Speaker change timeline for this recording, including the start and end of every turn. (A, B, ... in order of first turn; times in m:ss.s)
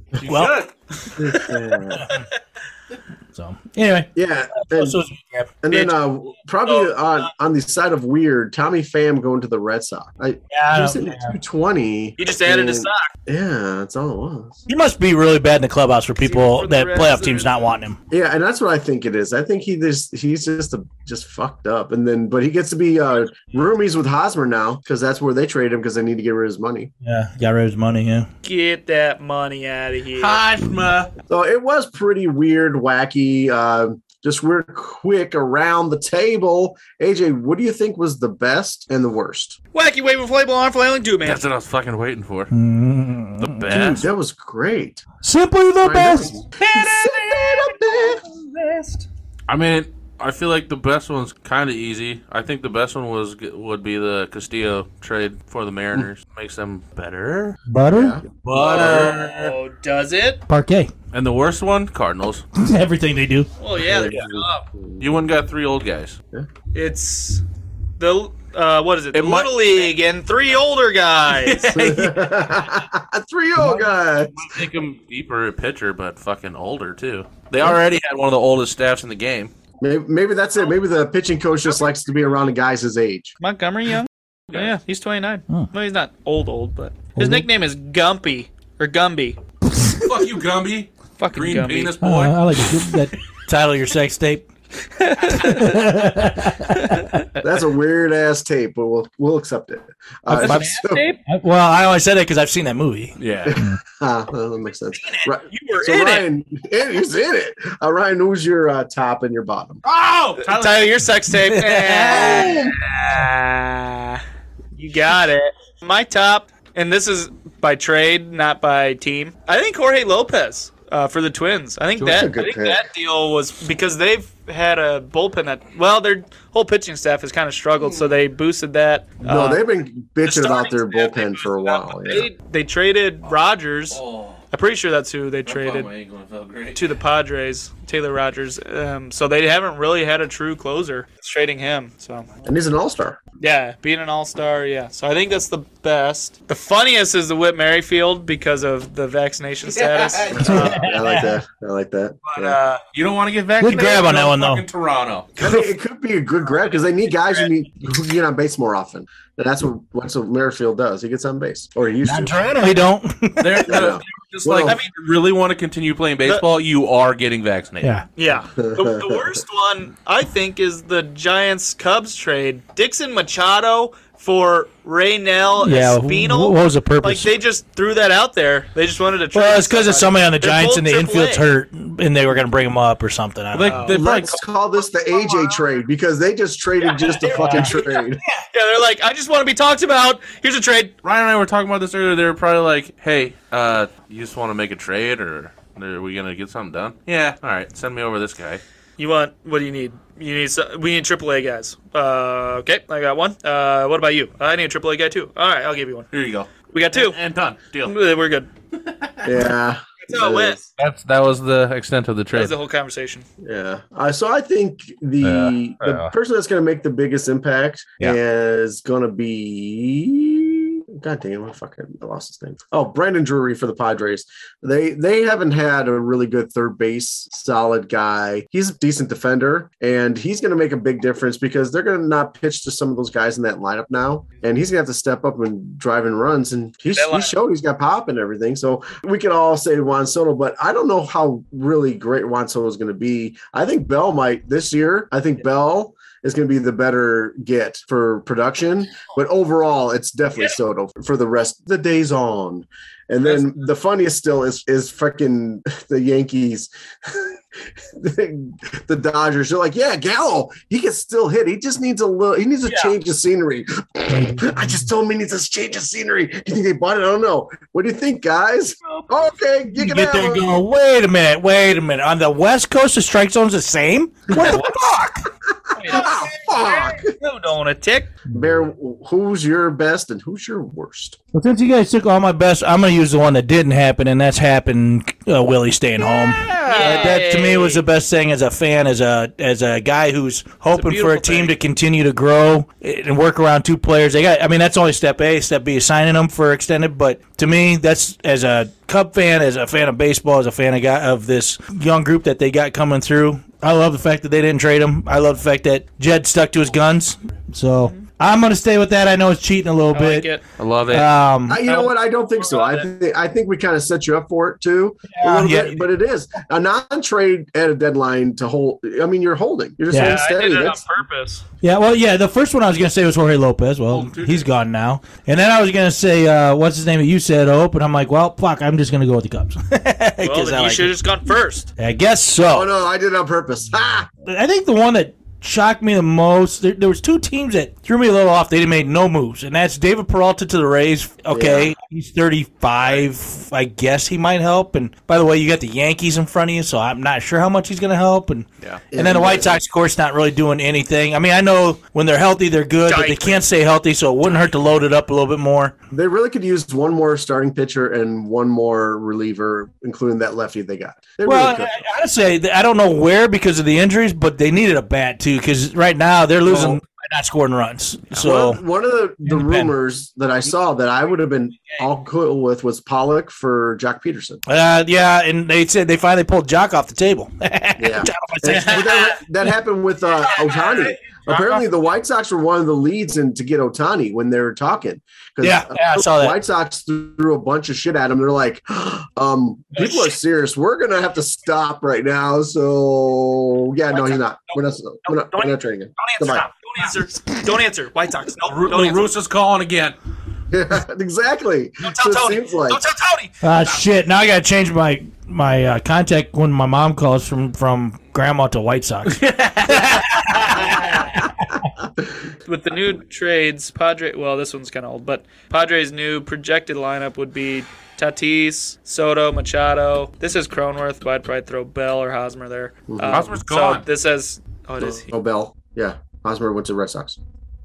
0:00.2-0:00.7 A
0:00.2-0:00.6 B
0:01.2-0:02.1 C
0:01.9-0:02.2 B
0:03.3-0:05.5 B
0:04.2-0:05.0 C
0:05.6-0:14.6 C
0:05.7-0:05.9 D
0:06.6-0:06.9 D
0:10.5-0:11.4 B
0:12.2-0:13.1 D
0:14.7-0:18.0 B
0:16.2-0:17.7 D
0:18.1-0:26.9 C
0:27.0-0:28.3 B
0:28.4-0:30.4 D
0:30.1-0:31.1 A
0:31.3-0:39.6 C
0:39.7-0:41.4 D
0:41.2-0:42.5 A
0:42.5-0:44.0 B
0:43.4-0:44.1 A
0:43.8-0:45.0 C
0:45.2-0:46.4 B
0:45.8-0:48.2 C
0:46.6-0:47.5 A
0:47.4-0:49.0 D
0:49.5-0:57.6 A
0:57.7-0:58.2 B
0:57.9-0:59.1 C
0:58.4-0:59.5 A
0:58.5-1:00.4 D
1:00.5-1:00.9 B
1:01.1-1:02.4 A
1:02.6-1:03.5 B
1:03.6-1:04.7 D
1:03.8-1:05.0 C
1:05.0-1:06.2 A
1:06.7-1:07.4 D
1:08.0-1:11.7 D
1:09.1-1:09.9 A
1:11.3-1:12.4 A
1:11.7-1:14.4 C
1:14.3-1:19.5 A
1:19.8-1:23.3 C
1:23.4-1:29.4 D
1:27.2-1:27.5 B
1:29.7-1:30.1 B
1:30.0-1:32.6 A
1:31.2-1:31.9 D
1:32.0-1:34.5 B
1:35.0-1:35.8 D
1:35.2-1:37.3 B
1:37.4-1:41.0 C
1:40.3-1:43.8 B
1:40.3-1:41.2 D
1:43.2-1:43.5 A
1:43.4-1:49.8 C
1:45.1-1:46.2 D
1:49.8-1:50.9 A
1:50.4-1:54.2 D
1:51.3-1:53.2 B
1:52.2-1:52.7 C
1:54.8-2:09.6 D
2:02.0-2:02.8 C
2:09.2-2:12.3 C
2:10.2-2:14.0 D
2:13.9-2:14.4 A
2:14.5-2:15.9 D
2:15.4-2:16.9 A
2:16.7-2:22.3 D
2:22.4-2:23.2 C
2:23.4-2:30.4 D
2:29.6-2:30.7 A
2:30.3-2:32.6 C
2:30.4-2:31.4 B
2:32.2-2:32.8 D
2:32.9-2:35.3 A
2:33.6-2:34.6 B
2:35.4-2:42.4 C
2:42.0-2:44.0 B
2:43.4-2:47.9 A
2:43.7-2:44.8 C
2:44.6-2:44.9 D
2:47.8-2:48.0 B
2:48.2-3:01.5 D
2:48.6-2:49.3 C
2:55.6-2:57.3 B
2:59.3-3:04.0 B
3:03.5-3:04.4 A
3:03.7-3:04.0 D
3:03.9-3:08.2 C
3:06.8-3:10.9 D
3:07.3-3:07.7 B
3:11.0-3:18.6 A
3:19.0-3:26.1 D
3:26.1-3:28.0 A
3:26.7-3:27.2 D
3:27.8-3:28.5 D
3:28.8-3:29.5 A
3:29.2-3:30.6 C
3:30.0-3:30.6 D
3:30.8-3:32.5 A
3:32.3-3:33.2 D
3:33.4-4:30.6 C
3:35.2-3:36.1 A
3:56.9-3:57.4 D
4:22.7-4:22.9 D
4:24.1-4:24.9 B
4:29.7-4:35.3 B
4:34.4-4:34.6 D
4:35.7-4:38.1 D
4:35.8-4:37.1 C
4:38.3-4:38.6 B
4:38.3-4:41.2 C
4:41.3-5:10.3 B
4:46.2-4:47.1 A
4:46.6-4:47.8 D
4:50.7-4:51.5 D
5:07.8-5:08.0 D
5:09.9-5:10.4 D
5:10.6-5:11.1 A
5:10.9-5:11.6 B
5:11.5-5:20.8 C
5:11.7-5:12.9 D
5:15.1-5:15.9 B
5:19.9-5:20.2 B
5:19.9-5:21.4 D
5:21.6-5:30.9 B
5:23.9-5:24.5 A
5:30.2-5:31.7 D
5:31.8-5:32.7 B
5:32.5-5:34.1 C
5:34.2-5:55.7 B
5:41.3-5:41.7 C
5:48.9-5:49.6 C
5:52.9-5:53.4 D
5:55.9-6:01.7 C
6:01.2-6:08.6 B
6:06.5-6:06.8 C
6:08.2-6:14.4 C
6:09.2-6:09.7 B
6:14.4-6:19.5 B
6:17.8-6:36.4 C
6:20.3-6:21.3 D
6:25.4-6:26.4 B
6:33.9-6:39.1 D
6:38.4-6:40.0 A
6:40.5-6:42.8 C
6:41.8-6:43.3 D
6:43.4-6:51.6 B
6:49.1-6:50.0 A
6:50.3-6:51.0 D
6:52.4-7:05.1 D
7:02.9-7:03.3 C
7:03.1-7:03.8 A
7:04.8-7:07.2 C